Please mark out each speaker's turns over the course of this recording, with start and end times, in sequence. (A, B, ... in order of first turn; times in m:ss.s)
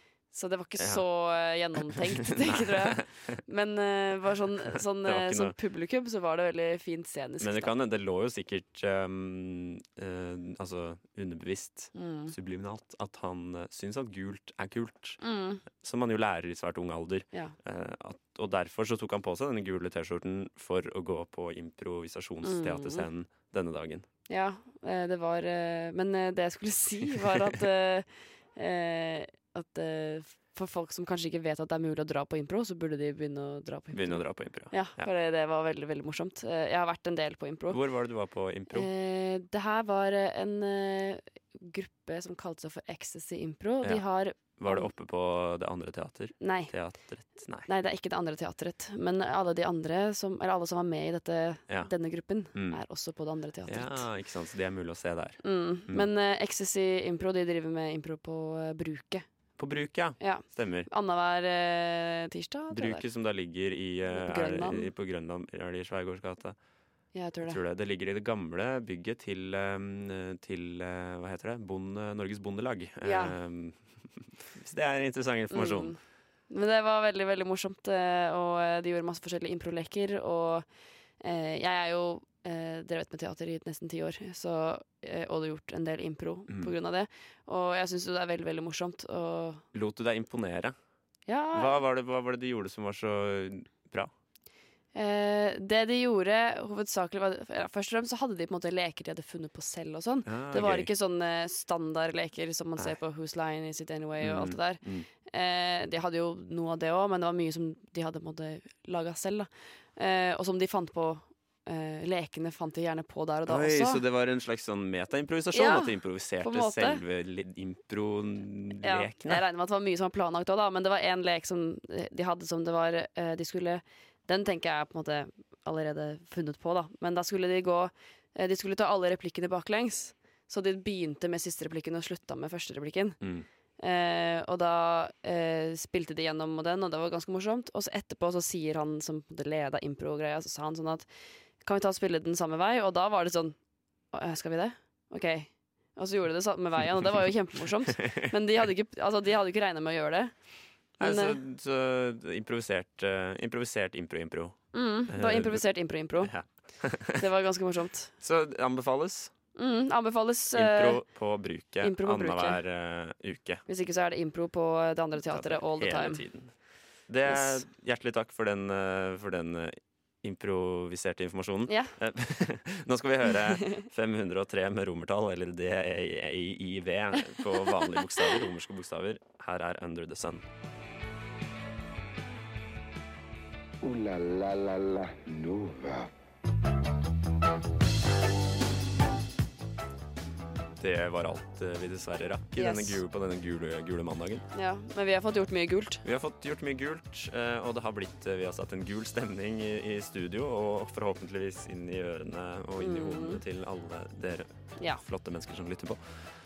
0:00.3-0:07.7 A
0:00.8-0:01.0 B
0:01.9-0:03.4 B
0:04.8-0:05.6 B
0:07.4-0:15.2 B
0:11.9-0:12.3 A
0:15.2-0:15.6 A
0:15.7-0:24.1 B
0:22.4-0:23.1 A
0:24.3-0:37.8 A
0:27.2-0:27.6 B
0:33.9-0:35.1 B
0:37.7-0:38.9 B
0:38.7-0:44.9 A
0:44.6-0:47.7 B
0:46.4-0:46.7 A
0:47.7-0:54.1 A
0:52.5-0:52.8 B
0:53.7-0:56.1 B
0:55.4-0:59.3 A
0:59.6-1:00.9 B
1:00.2-1:03.0 A
1:02.7-1:06.6 B
1:04.1-1:04.9 A
1:07.1-1:07.6 A
1:07.4-1:16.0 B
1:13.0-1:13.4 A
1:15.5-1:16.0 A
1:16.5-1:20.7 A
1:21.2-1:29.6 A
1:29.7-1:30.8 B
1:31.3-1:31.8 A
1:31.5-1:34.1 B
1:34.9-1:54.0 A
1:40.3-1:40.9 B
1:44.2-1:45.1 B
1:53.5-1:59.4 B
1:55.5-1:57.0 A
1:58.8-2:13.2 A
2:13.2-2:13.5 B
2:13.8-2:21.1 A
2:21.6-2:23.6 A
2:24.1-2:30.3 A
2:27.9-2:28.3 B
2:31.0-2:31.4 A
2:31.0-2:35.6 B
2:34.7-2:36.3 A
2:36.2-2:37.3 B
2:37.2-2:38.1 A
2:38.2-2:39.3 B
2:39.6-2:41.0 A
2:40.5-2:43.6 B
2:41.8-2:42.6 A
2:43.7-2:46.2 A
2:45.3-2:46.5 B
2:47.1-3:00.4 B
2:47.3-2:47.6 A
2:51.7-2:51.9 A
2:53.6-2:53.8 A
2:57.8-2:58.4 A
3:03.8-3:06.1 C
3:10.8-3:14.4 B
3:12.6-3:13.0 A
3:14.5-3:16.0 A
3:16.0-3:26.0 B
3:22.8-3:23.4 A